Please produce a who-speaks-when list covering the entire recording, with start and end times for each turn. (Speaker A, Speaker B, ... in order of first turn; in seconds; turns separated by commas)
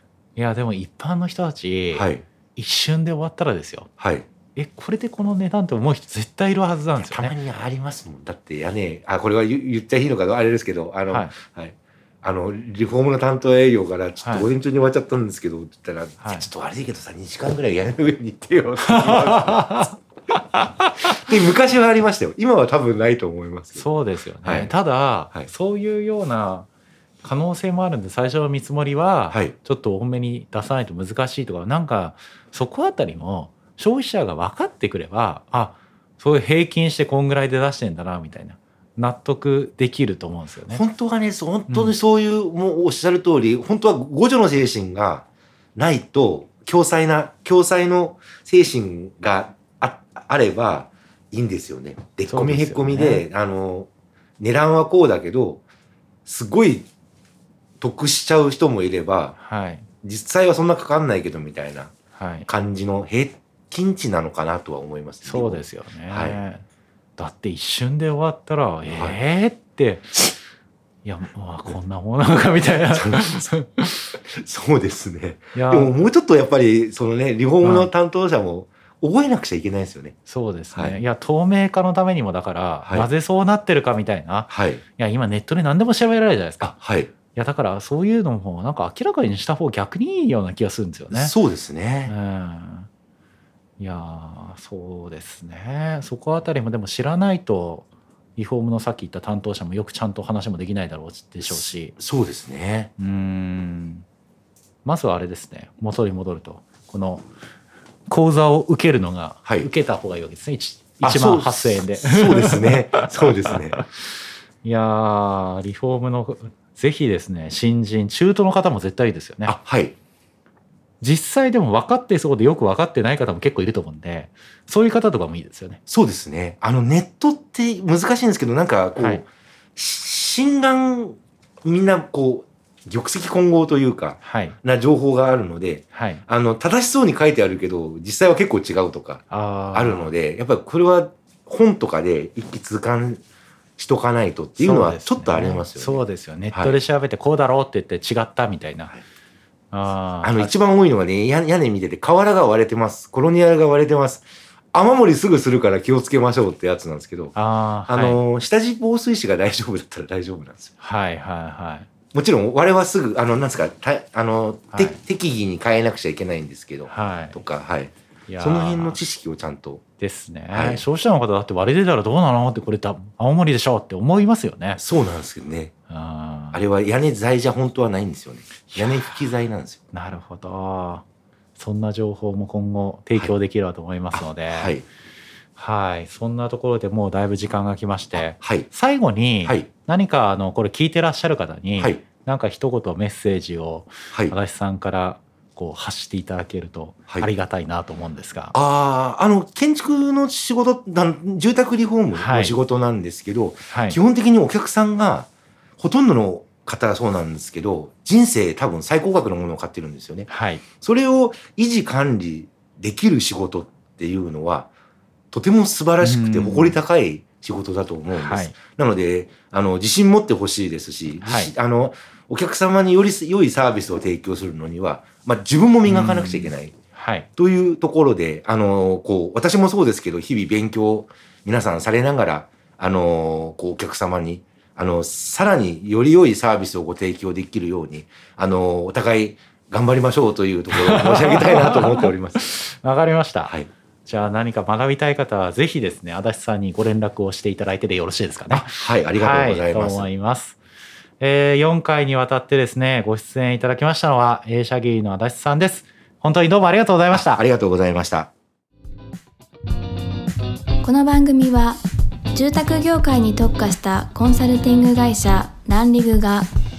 Speaker A: 0.3-3.9, Speaker B: 1.9-2.2, Speaker B: 4.0-4.2, Speaker A: 4.5-7.3, Speaker B: 7.0-19.9, Speaker A: 14.2-14.5, Speaker A: 16.2-16.5, Speaker A: 18.9-19.9, Speaker B: 21.1-23.9, Speaker A: 23.7-26.7, Speaker B: 24.4-24.7, Speaker A: 27.2-40.8, Speaker B: 40.7-45.2, Speaker A: 41.7-41.9, Speaker B: 45.8-53.9, Speaker A: 52.3-53.2, Speaker B: 54.4-55.6, Speaker B: 56.2-56.9, Speaker B: 57.8-59.3, Speaker A: 59.3-59.9, Speaker B: 60.0-61.9, Speaker A: 62.1-62.5, Speaker B: 62.5-66.4, Speaker A: 65.2-66.6, Speaker A: 67.2-70.3, Speaker B: 68.9-69.2, Speaker A: 71.0-74.1, Speaker B: 72.9-73.5, Speaker B: 74.3-80.1, Speaker A: 75.5-76.1, Speaker A: 77.6-77.9, Speaker A: 80.2-86.7, Speaker B: 80.7-81.0, Speaker B: 84.5-84.8, Speaker B: 86.6-87.1, Speaker A: 87.3-91.3, Speaker B: 91.1-92.1, Speaker A: 92.1-92.9, Speaker A: 93.8-101.9, Speaker B: 101.5-102.9, Speaker A: 103.0-104.0, Speaker A: 104.8-107.2, Speaker A: 108.1-113.8, Speaker B: 111.0-113.8, Speaker A: 114.6-119.5, Speaker B: 119.5-119.9, Speaker A: 121.0-125.8, Speaker B: 125.9-129.2, Speaker A: 129.0-129.2, Speaker B: 129.8-143.2, Speaker A: 134.2-134.6, Speaker A: 135.9-136.2, Speaker A: 139.3-140.1, Speaker B: 143.8-146.8, Speaker A: 144.6-148.9, Speaker A: 149.7-150.5, Speaker B: 150.2-157.3, Speaker A: 157.3-158.2, Speaker B: 157.9-160.7, Speaker A: 160.8-161.9, Speaker B: 162.1-169.8, Speaker A: 164.7-165.0, Speaker A: 166.9-167.4, Speaker A: 168.3-169.0, Speaker A: 170.0-174.8, Speaker B: 170.5-170.8, Speaker B: 174.8-175.7, Speaker A: 175.9-176.6, Speaker B: 176.5-179.8, Speaker A: 178.7-179.2, Speaker A: 179.9-181.0, Speaker A: 181.6-184.8, Speaker B: 184.1-184.8, Speaker A: 185.6-198.5, Speaker B: 188.1-188.7, Speaker B: 198.5-205.3, Speaker A: 202.1-202.6, Speaker A: 203.7-204.0, Speaker B: 205.8-210.3, Speaker A: 210.3-210.6, Speaker B: 210.8-214.7, Speaker B: 215.3-226.7, Speaker A: 216.0-216.8, Speaker A: 218.1-218.5, Speaker A: 221.2-221.5, Speaker A: 225.8-227.3, Speaker B: 227.3-242.6, Speaker A: 240.7-243.5, Speaker A: 244.1-250.6, Speaker B: 248.5-250.1, Speaker A: 251.2-257.4, Speaker B: 257.1-258.3, Speaker C: 260.8-261.8, Speaker C: 262.3-266.5